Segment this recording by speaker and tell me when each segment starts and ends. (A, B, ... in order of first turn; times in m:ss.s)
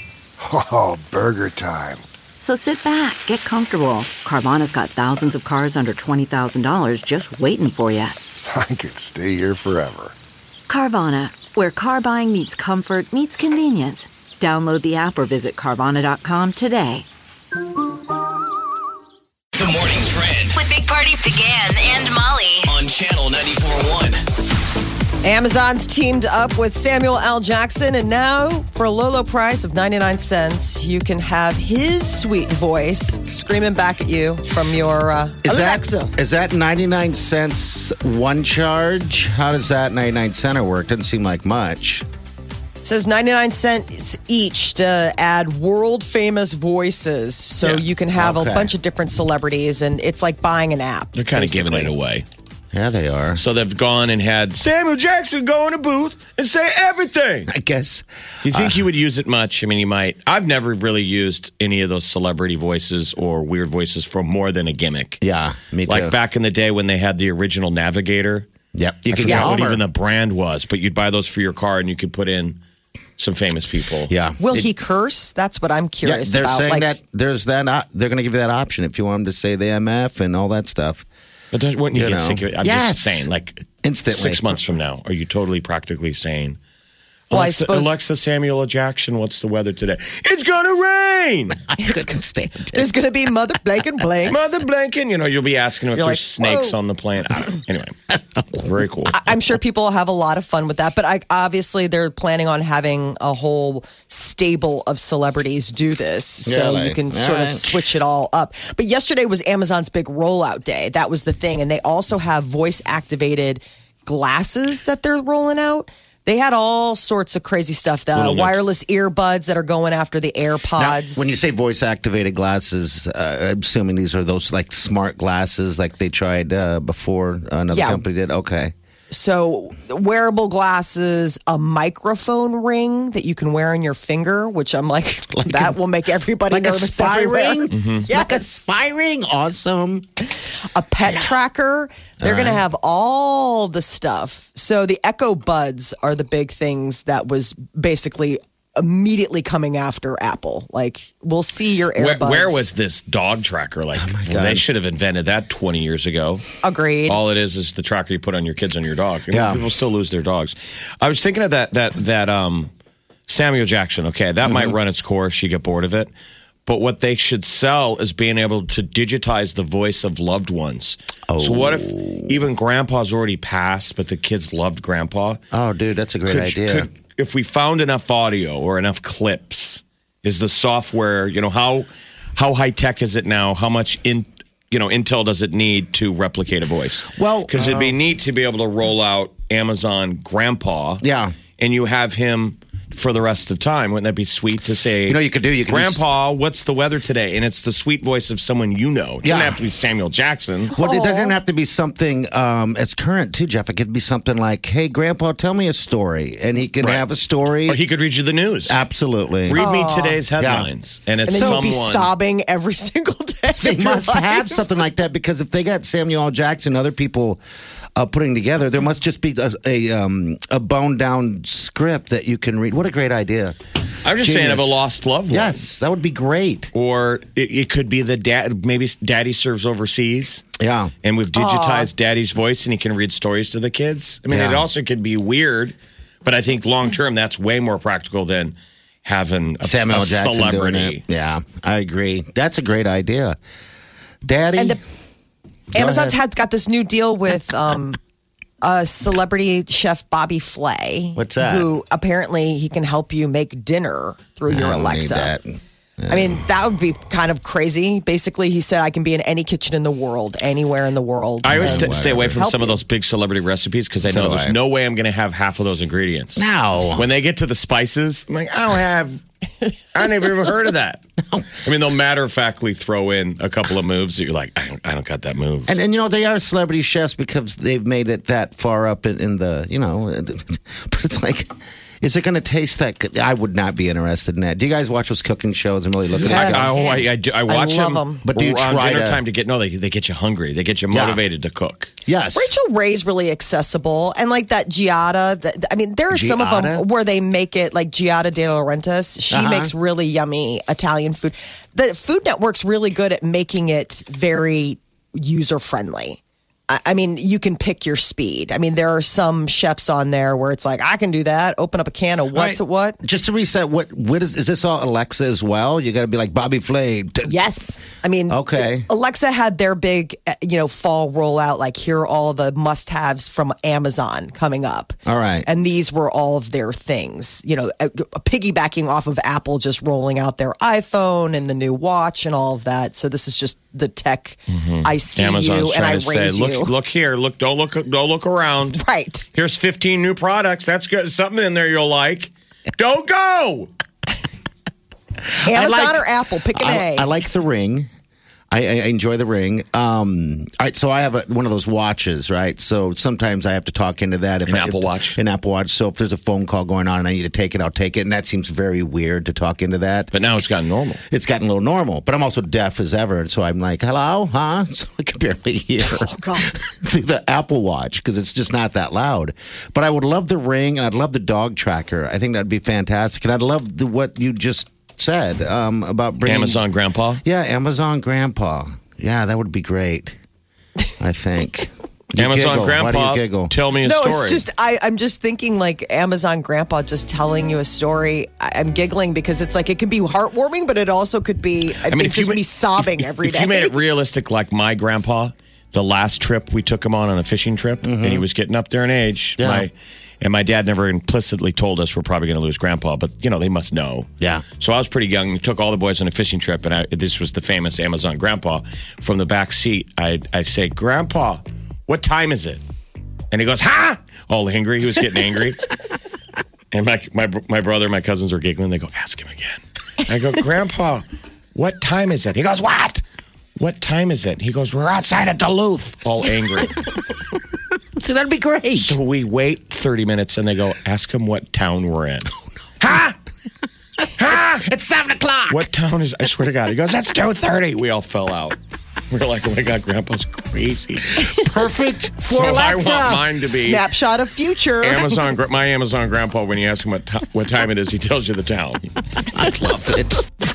0:00.4-0:02.1 A
0:02.4-0:08.2 B
0:08.5-0:10.2 A
0:10.7-0:17.1 B
0:19.6-0:20.6 C
0:20.6-0:22.7 D
0:22.6-0:24.2 C
0:25.2-0:36.1 E
0:35.4-0:42.0 F
0:42.8-0:51.9 E
0:48.2-0:48.7 F
0:51.2-0:52.2 G
0:52.7-0:53.4 F
0:53.4-0:57.5 G
0:57.5-0:58.8 F
0:58.4-1:05.2 G
1:05.2-1:06.1 F
1:05.9-1:08.5 G
1:08.7-1:09.8 F
1:09.1-1:12.6 G
1:09.3-1:09.5 E
1:13.2-1:14.1 G
1:14.1-1:14.7 F
1:14.4-1:16.9 E
1:16.0-1:21.1 F
1:21.5-1:26.6 G
1:21.9-1:23.3 F
1:23.8-1:24.6 F
1:27.3-1:31.6 G
1:27.3-1:28.0 E
1:31.7-1:33.0 F
1:31.8-1:34.5 E
1:34.3-1:38.0 G
1:36.0-1:36.8 E
1:38.1-1:39.1 F
1:38.6-1:39.2 G
1:39.1-2:01.3 E
1:46.5-1:47.8 F
1:58.2-1:58.6 G
2:00.8-2:08.7 F
2:07.7-2:08.0 E
2:09.1-2:18.7 E
2:15.3-2:15.8 F
2:16.5-2:20.1 F
2:17.7-2:18.1 G
2:20.3-2:32.6 E
2:22.2-2:22.6 F
2:32.0-2:36.5 G
2:34.0-2:34.6 F
2:36.6-2:37.2 E
2:37.1-2:42.7 G
2:39.3-2:39.6 F
2:43.3-2:46.1 G
2:44.4-2:44.8 F
2:46.7-2:55.4 G
2:51.3-2:52.4 F
2:55.5-2:56.9 F
2:56.3-3:11.0 G
3:07.1-3:08.0 F
3:11.0-3:11.4 F
3:11.6-3:20.7 G
3:15.1-3:16.0 F
3:19.2-3:19.6 F
3:20.8-3:21.4 E
3:20.8-3:27.8 F
3:27.7-3:28.8 G
3:28.7-3:29.6 F
3:29.5-3:32.1 G
3:29.6-3:30.2 E
3:30.4-3:30.7 F
3:31.3-3:34.6 E
3:31.3-3:31.6 F
3:33.6-3:37.4 F
3:38.0-3:43.6 F
3:44.0-3:45.6 G
3:44.2-3:46.7 F
3:46.7-3:50.4 G
3:50.6-3:50.9 F
3:51.0-4:01.0 G
3:51.4-3:51.9 E
3:54.3-3:54.7 F
3:59.6-4:03.4 F
4:04.2-4:04.8 F
4:05.7-4:06.2 F
4:05.7-4:08.0 E
4:08.6-4:15.3 E
4:11.2-4:11.7 F
4:14.5-4:16.4 F
4:16.1-4:22.8 E
4:21.4-4:29.2 G
4:21.4-4:22.4 F
4:24.0-4:24.6 F
4:26.4-4:27.1 F
4:29.9-4:31.0 G
4:31.6-4:35.7 G
4:35.7-4:41.5 F
4:42.0-4:47.0 F
4:46.1-4:48.2 E
4:46.2-4:51.9 G
4:48.2-4:49.2 F
4:50.9-4:51.2 F
4:52.1-4:52.5 F
4:52.4-5:13.0 E
4:56.1-4:56.9 F
4:59.3-4:59.7 F
5:12.3-5:17.4 F
5:17.2-5:36.7 E
5:18.3-5:18.9 F
5:25.1-5:25.5 F
5:34.5-5:38.8 G
5:38.8-5:39.3 E
5:39.4-5:43.7 G
5:45.4-5:47.1 E
5:45.4-5:47.9 F
5:48.5-6:00.1 F
5:54.5-5:55.2 G
6:00.1-6:01.0 G
6:01.1-6:16.6 F
6:05.8-6:06.5 E
6:16.2-6:17.2 G
6:17.2-6:20.2 F
6:21.0-6:23.5 F
6:22.2-6:24.4 G
6:23.8-6:33.8 E
6:31.8-6:52.6 G
6:37.8-6:38.2 F
6:39.4-6:39.7 F
6:44.2-6:44.4 F
6:53.3-6:55.6 G
6:56.7-7:03.0 G
7:03.6-7:06.8 G
7:08.0-7:09.0 F
7:08.8-7:13.2 G
7:14.2-7:14.6 G
7:14.2-7:15.6 F
7:15.5-7:18.6 G
7:19.1-7:21.3 G
7:21.2-7:23.3 F
7:22.2-7:23.9 G
7:23.5-7:25.1 E
7:24.8-7:28.9 G
7:29.2-7:30.2 F